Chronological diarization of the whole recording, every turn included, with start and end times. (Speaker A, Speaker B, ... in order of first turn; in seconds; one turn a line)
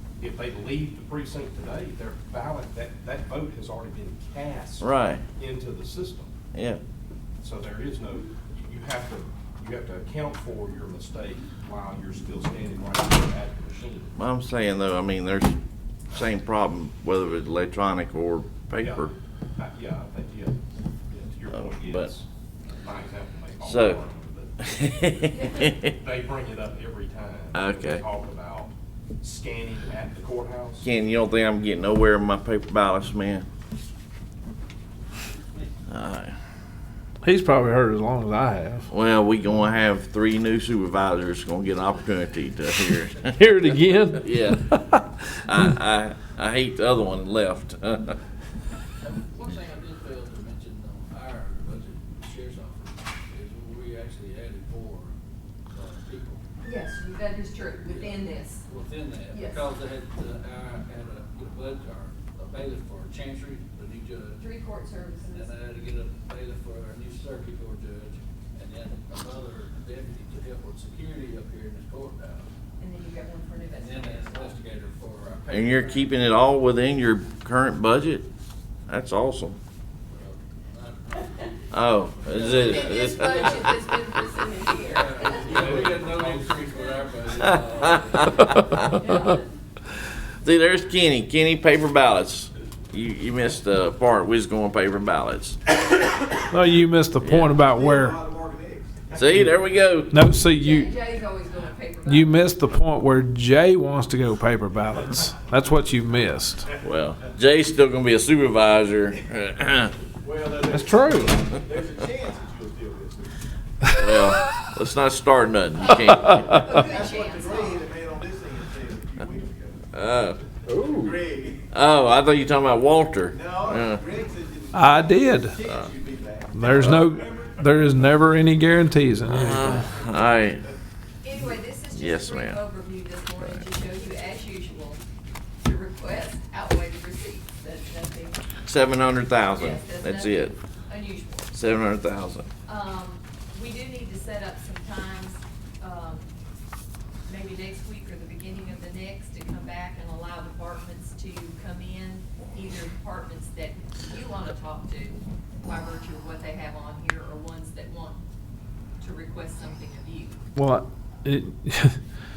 Speaker A: 0.2-6.3
Speaker B: 4.8-5.2
Speaker B: 6.5-6.8
Speaker A: 7.4-14.1
Speaker B: 14.2-15.6
Speaker B: 16.1-19.1
Speaker A: 18.8-20.6
Speaker A: 21.1-30.9
Speaker B: 21.5-22.1
Speaker B: 23.6-24.0
Speaker B: 24.7-25.9
Speaker C: 25.3-25.7
Speaker B: 27.5-28.0
Speaker B: 30.8-33.5
Speaker B: 35.9-36.4
Speaker D: 37.2-38.9
Speaker B: 38.9-43.4
Speaker D: 43.3-45.5
Speaker B: 44.2-44.6
Speaker B: 45.5-48.2
Speaker E: 49.0-55.1
Speaker E: 55.7-56.4
Speaker C: 56.6-58.6
Speaker E: 57.9-64.4
Speaker C: 59.3-59.7
Speaker C: 64.4-65.5
Speaker E: 65.2-72.5
Speaker C: 72.8-74.6
Speaker E: 73.7-76.0
Speaker B: 75.5-78.3
Speaker B: 78.9-79.6
Speaker E: 80.1-83.7
Speaker B: 81.7-83.7
Speaker C: 82.4-87.0
Speaker E: 84.8-88.8
Speaker A: 85.2-86.7
Speaker B: 87.4-89.2
Speaker C: 88.9-89.5
Speaker B: 90.3-95.6
Speaker D: 96.5-98.3
Speaker B: 97.2-97.6
Speaker F: 97.7-99.1
Speaker B: 99.1-100.2
Speaker D: 100.1-100.9
Speaker C: 100.5-102.5
Speaker D: 102.1-106.7
Speaker B: 106.8-109.9
Speaker F: 110.2-113.2
Speaker D: 110.7-111.4
Speaker B: 113.9-116.5
Speaker C: 115.8-118.0
Speaker D: 116.3-116.8
Speaker F: 116.7-119.8
Speaker B: 119.9-120.4
Speaker D: 120.7-121.3
Speaker F: 121.0-121.6
Speaker B: 121.7-124.0
Speaker F: 123.3-127.6
Speaker D: 124.7-125.7
Speaker D: 126.5-130.0
Speaker B: 129.3-130.6
Speaker F: 130.1-130.4
Speaker C: 131.2-135.0
Speaker B: 131.9-132.6
Speaker C: 135.6-138.5
Speaker B: 138.6-140.5
Speaker C: 139.6-141.5
Speaker B: 141.5-142.5
Speaker C: 142.7-146.3
Speaker C: 147.3-158.2
Speaker C: 159.0-160.4
Speaker D: 160.6-162.0